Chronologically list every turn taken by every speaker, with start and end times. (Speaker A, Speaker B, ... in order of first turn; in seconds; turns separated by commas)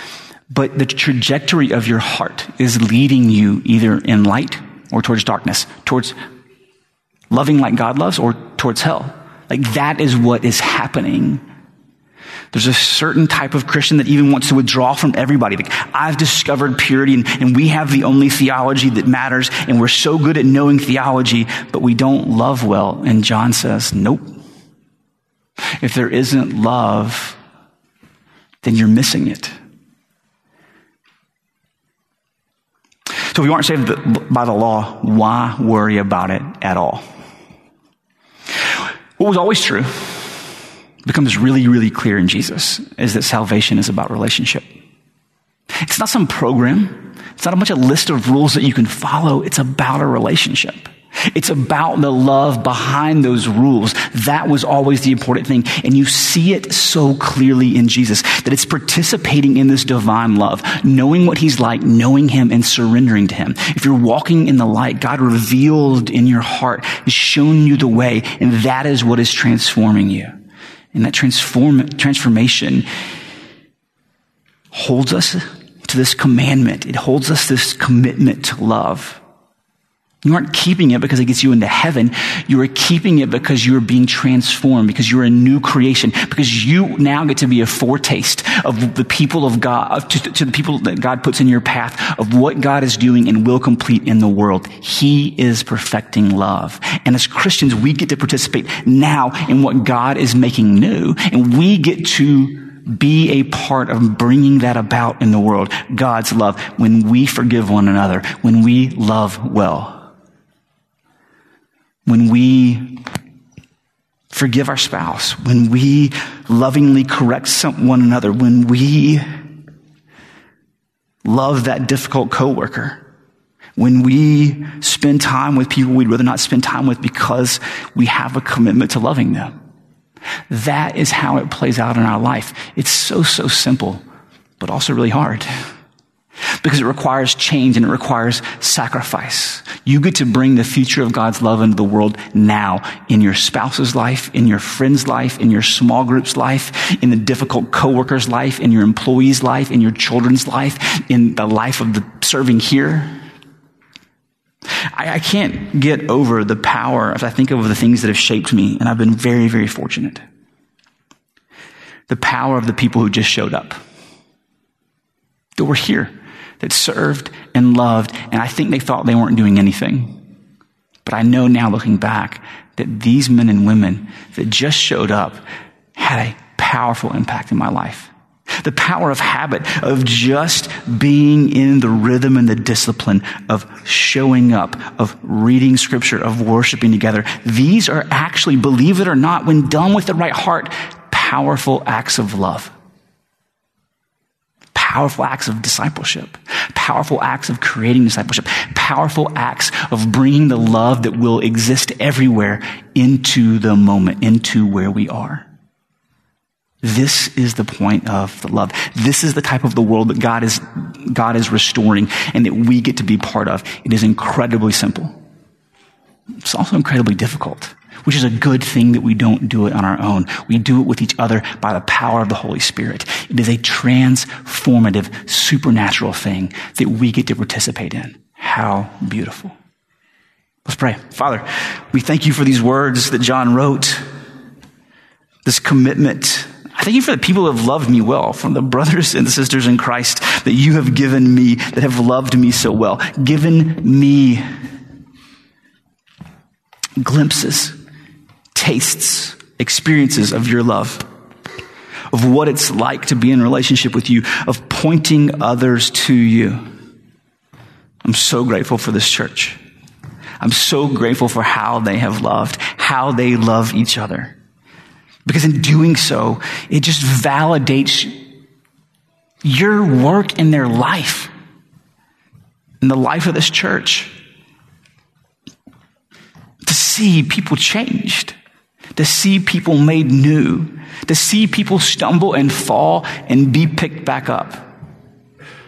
Speaker A: 0.5-6.2, Speaker A: 7.3-11.4, Speaker A: 12.5-24.3, Speaker A: 25.8-27.4, Speaker A: 28.6-29.5, Speaker A: 33.3-37.0, Speaker A: 39.2-40.4, Speaker A: 41.0-44.7, Speaker A: 45.8-70.3, Speaker A: 70.9-72.9, Speaker A: 74.7-79.2, Speaker A: 80.2-110.0, Speaker A: 112.0-113.0, Speaker A: 114.3-119.2, Speaker A: 121.2-123.0, Speaker A: 123.8-129.5, Speaker A: 130.5-134.0, Speaker A: 134.6-135.5, Speaker A: 136.6-153.2, Speaker A: 154.9-160.2, Speaker A: 162.1-163.8, Speaker A: 165.6-170.2, Speaker A: 171.0-175.4, Speaker A: 175.9-178.1, Speaker A: 178.6-192.7, Speaker A: 194.7-205.4, Speaker A: 206.8-215.2, Speaker A: 216.4-229.6, Speaker A: 230.6-234.0, Speaker A: 235.4-244.4, Speaker A: 247.0-247.8, Speaker A: 248.5-251.1, Speaker A: 252.1-256.6, Speaker A: 258.0-259.6, Speaker A: 260.4-264.3, Speaker A: 265.2-268.1, Speaker A: 269.4-271.3, Speaker A: 272.8-274.1, Speaker A: 276.6-278.3, Speaker A: 278.9-284.7